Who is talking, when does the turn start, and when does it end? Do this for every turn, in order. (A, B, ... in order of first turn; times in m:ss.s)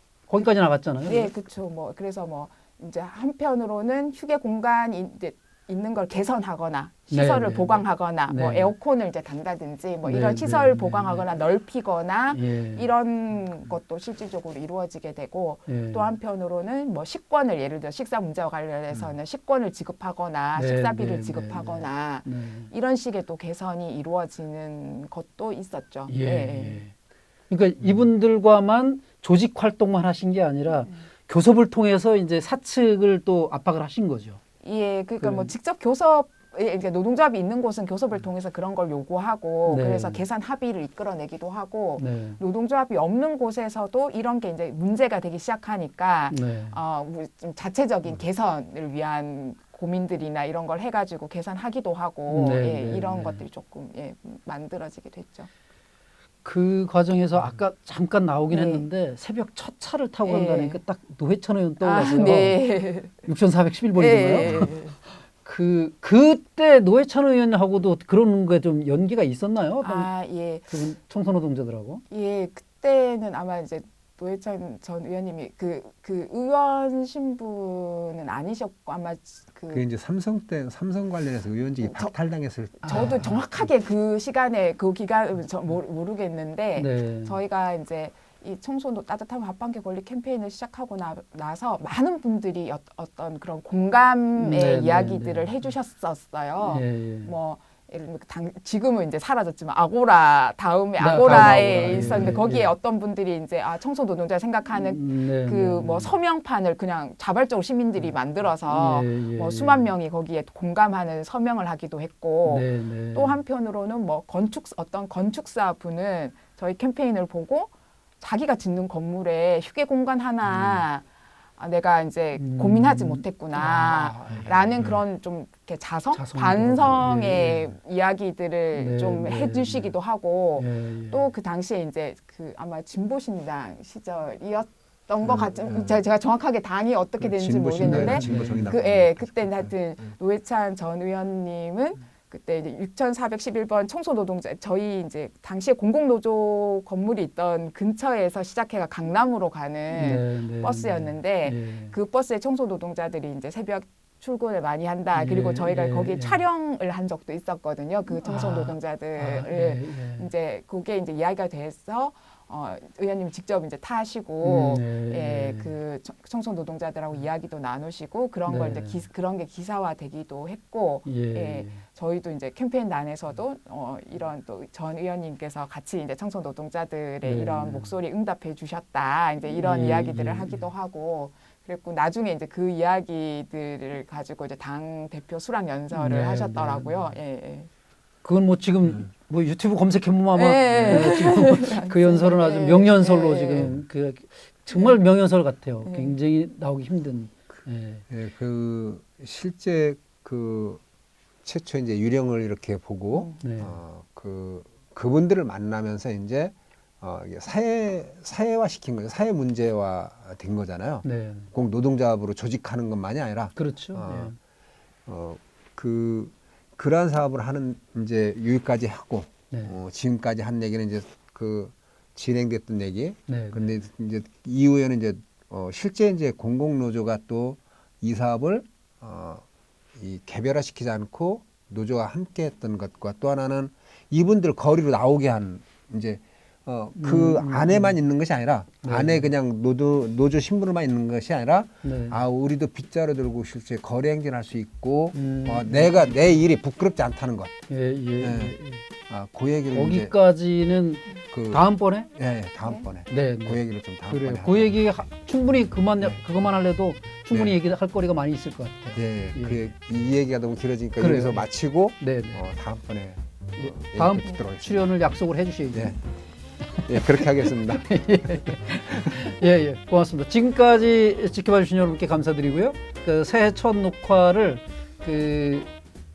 0:00.3-0:01.3 A
0:01.1-0:26.8 B
0:07.1-0:08.7 A
0:10.0-0:11.2 A
0:12.3-0:12.9 A
0:15.7-0:16.1 A
0:20.6-0:22.7 A
0:26.1-0:26.9 A
0:27.5-0:34.4 A
0:34.6-0:55.5 B
0:35.2-0:35.5 A
0:39.7-0:40.2 A
0:42.0-0:42.4 A
0:46.3-0:46.8 A
0:52.3-0:53.4 A
0:56.4-1:04.7 A
0:58.5-0:58.8 B
1:00.3-1:00.8 B
1:01.8-1:03.2 B
1:04.0-1:05.0 B
1:05.4-1:10.1 A
1:09.8-1:10.7 B
1:10.7-1:12.0 A
1:12.1-1:19.8 B
1:19.7-1:23.0 C
1:21.8-1:22.1 B
1:22.8-2:01.0 B
1:22.8-1:23.4 A
1:26.8-1:27.4 A
1:34.4-1:35.5 A
1:36.6-1:37.3 A
1:41.0-1:42.7 A
1:44.8-1:46.1 A
1:48.7-1:49.9 A
1:52.4-1:53.4 A
2:01.6-3:07.7 B
2:02.4-2:05.0 A
2:06.1-2:07.7 A
2:08.8-2:09.9 A
2:10.6-2:11.2 A
2:15.4-2:16.0 C
2:17.2-2:19.7 C
2:17.8-2:18.7 A
2:29.9-2:31.9 A
2:35.1-2:36.4 A
2:38.2-2:40.3 A
2:44.4-2:45.7 A
2:48.5-2:49.0 A
2:51.0-2:51.8 A
2:57.2-2:57.9 A
2:59.5-3:00.6 A
3:05.9-3:06.9 A
3:08.2-3:18.0 A
3:10.3-3:13.7 B
3:15.8-3:16.2 B
3:18.1-3:20.8 C
3:21.4-3:34.3 C
3:23.1-3:23.4 B
3:23.4-3:23.8 A
3:31.0-3:31.5 A
3:33.6-3:34.4 A
3:35.1-3:49.4 C
3:43.3-3:43.6 A
3:50.0-4:07.6 C
3:57.0-3:58.0 A
3:58.8-3:59.2 A
4:01.8-4:02.2 A
4:05.2-4:06.0 A
4:07.7-4:08.8 A
4:08.2-4:08.6 C
4:09.1-4:10.1 C
4:09.7-4:12.1 A
4:11.3-4:14.8 C
4:13.1-4:19.6 A
4:17.3-4:17.6 C
4:19.0-4:24.8 C
4:21.0-4:21.5 A
4:22.0-4:22.4 A
4:23.6-4:26.0 A
4:26.8-4:35.7 A
4:26.9-4:27.9 C
4:28.9-4:29.2 C